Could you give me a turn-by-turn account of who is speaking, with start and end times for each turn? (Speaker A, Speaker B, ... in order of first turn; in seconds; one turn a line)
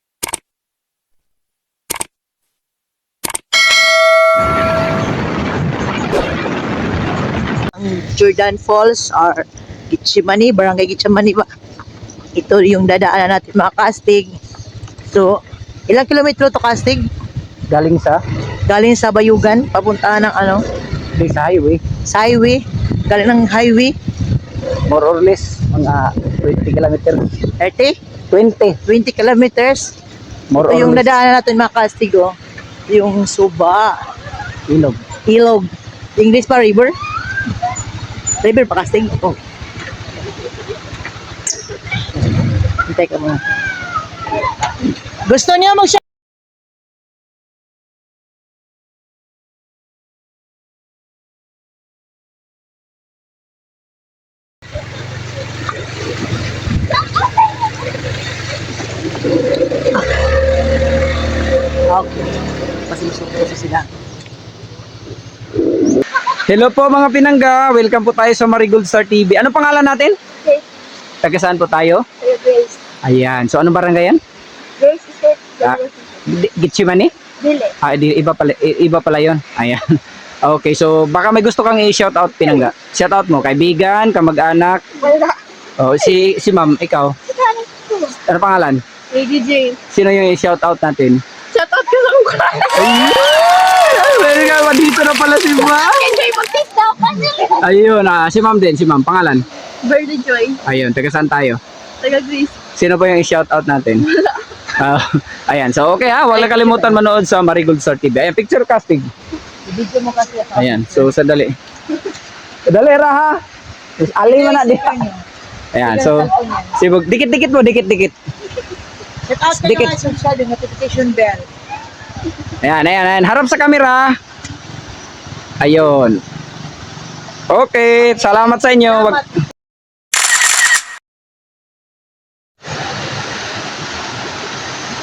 Speaker A: 7.7-11.4
Speaker A: 12.3-14.3
Speaker A: 15.1-15.3
Speaker A: 15.9-17.1
Speaker B: 17.7-18.2
Speaker A: 18.7-20.6
Speaker B: 21.1-21.8
Speaker A: 22.1-23.9
Speaker B: 24.9-27.4
Speaker A: 27.6-27.9
Speaker B: 28.3-28.8
Speaker A: 28.9-29.9
Speaker B: 30.5-31.1
Speaker A: 30.6-32.3
Speaker A: 32.9-33.9
Speaker B: 34.7-35.0
Speaker A: 35.3-36.9
Speaker A: 38.4-39.4
Speaker A: 42.9-43.4
Speaker A: 45.2-46.0
Speaker A: 61.9-62.3
Speaker A: 62.9-63.9
Speaker B: 66.5-70.2
Speaker B: 71.2-72.0
Speaker C: 72.2-72.8
Speaker B: 73.0-74.2
Speaker C: 74.8-76.2
Speaker B: 75.6-77.1
Speaker C: 77.4-77.7
Speaker B: 77.8-79.8
Speaker B: 80.4-85.0
Speaker B: 85.8-87.1
Speaker C: 87.4-88.1
Speaker B: 88.2-88.8
Speaker C: 89.1-89.8
Speaker B: 89.9-91.2
Speaker C: 91.5-92.9
Speaker B: 92.7-96.2
Speaker C: 95.6-97.6
Speaker B: 97.6-99.4
Speaker C: 99.8-100.6
Speaker B: 100.6-101.6
Speaker C: 102.0-102.5
Speaker B: 102.8-104.1
Speaker B: 104.7-109.1
Speaker A: 106.5-106.9
Speaker A: 109.7-111.0
Speaker B: 110.5-111.5
Speaker B: 112.7-113.3
Speaker B: 114.0-115.0
Speaker A: 114.2-115.2
Speaker B: 115.7-118.1
Speaker A: 115.8-116.8
Speaker A: 119.2-121.5
Speaker B: 119.5-120.0
Speaker B: 122.6-124.1
Speaker B: 125.6-126.2
Speaker B: 127.5-129.2
Speaker A: 128.5-129.3